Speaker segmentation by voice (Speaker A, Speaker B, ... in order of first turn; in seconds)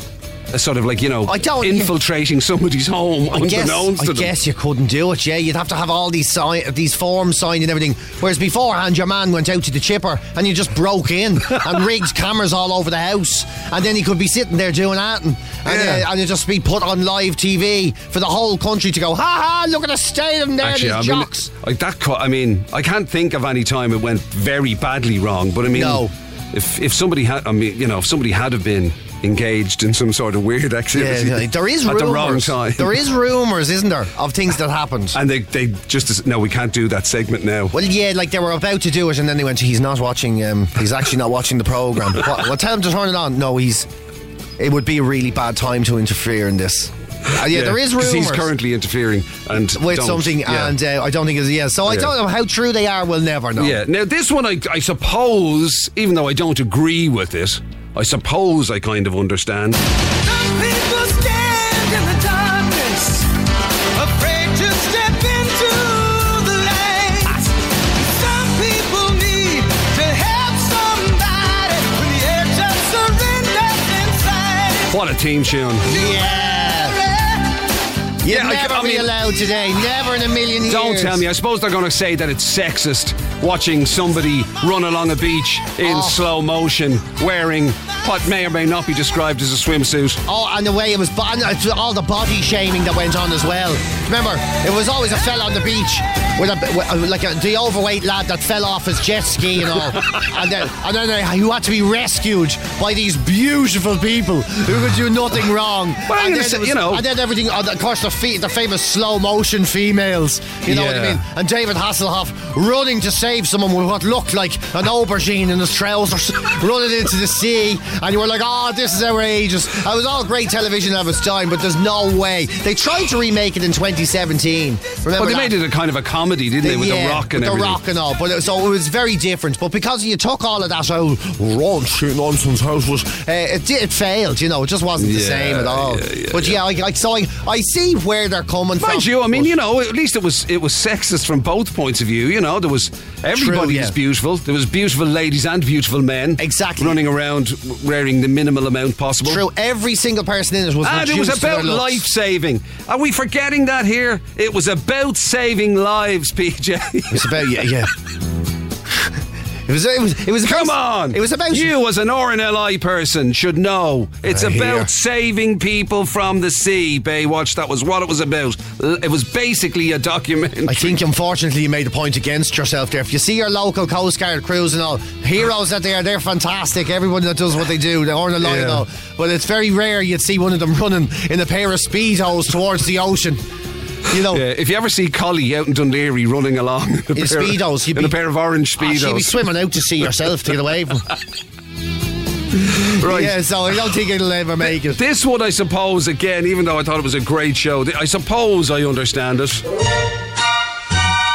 Speaker A: 0.5-4.3, 15.7-16.1, 20.6-33.0, 35.1-37.7, 47.4-50.7, 53.6-59.8, 74.9-75.9, 78.3-79.1, 80.7-90.2, 106.1-107.0, 110.7-111.2, 125.2-127.8, 135.0-136.6, 138.8-149.4, 150.8-157.4, 160.4-171.0, 178.4-178.8, 184.3-189.4, 192.7-193.4, 194.9-199.6
Speaker B: 1.3-1.9, 3.3-21.5, 25.7-26.1, 30.9-35.2, 37.7-43.9, 44.6-48.5, 49.8-53.8, 75.9-77.0, 78.2-81.2, 85.8-86.2, 90.3-125.6, 126.6-139.5, 143.3-143.9, 146.4-147.0, 149.2-152.1, 157.1-157.9, 159.7-161.7, 164.3-164.9, 170.7-183.4, 184.1-184.4, 187.1-188.2, 188.8-191.1, 192.7-195.0
Speaker C: 60.3-63.2, 64.0-67.3, 68.1-74.9